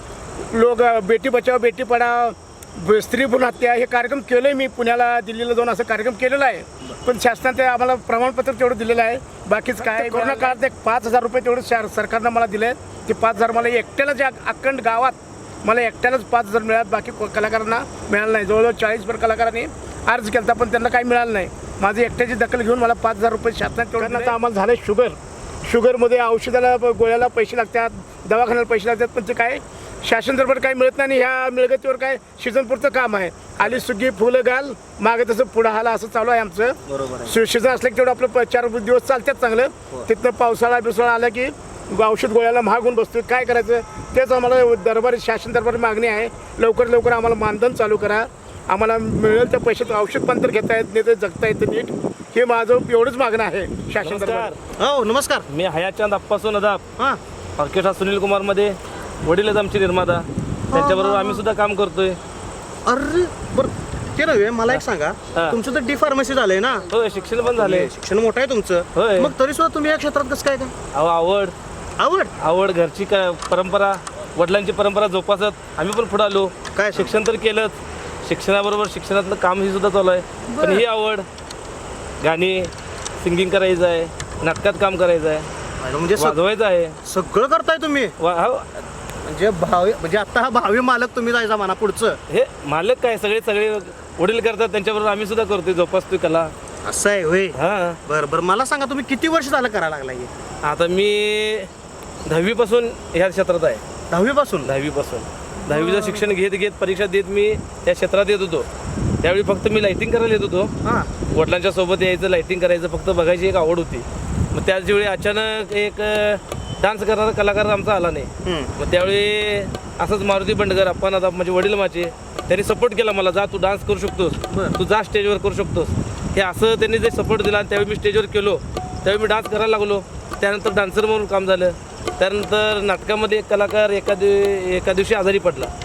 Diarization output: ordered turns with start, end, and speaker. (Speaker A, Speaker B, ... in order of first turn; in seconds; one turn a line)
Speaker A: 0.5-54.5
Speaker B: 36.9-37.4
Speaker C: 54.0-54.6
Speaker B: 54.8-55.5
Speaker C: 55.5-56.8
Speaker C: 57.6-62.2
Speaker B: 60.7-61.4
Speaker B: 62.9-66.9
Speaker C: 66.9-67.9
Speaker B: 67.5-70.8
Speaker C: 69.0-69.3
Speaker C: 70.9-71.5
Speaker B: 72.0-72.3
Speaker C: 72.4-81.2
Speaker B: 76.8-77.2
Speaker B: 80.5-80.8
Speaker C: 82.2-82.7
Speaker C: 83.2-85.5
Speaker B: 85.8-86.4
Speaker C: 86.2-87.0
Speaker B: 87.0-88.2
Speaker C: 88.2-88.7
Speaker B: 89.2-92.2
Speaker C: 92.3-96.5
Speaker B: 96.8-100.3
Speaker C: 97.5-98.0
Speaker C: 100.6-101.7
Speaker C: 102.3-103.8
Speaker B: 104.1-104.7
Speaker C: 104.7-108.7
Speaker B: 105.7-106.3
Speaker C: 109.2-110.7
Speaker B: 110.8-111.1
Speaker C: 111.3-135.7
Speaker B: 118.5-118.7
Speaker B: 124.5-124.8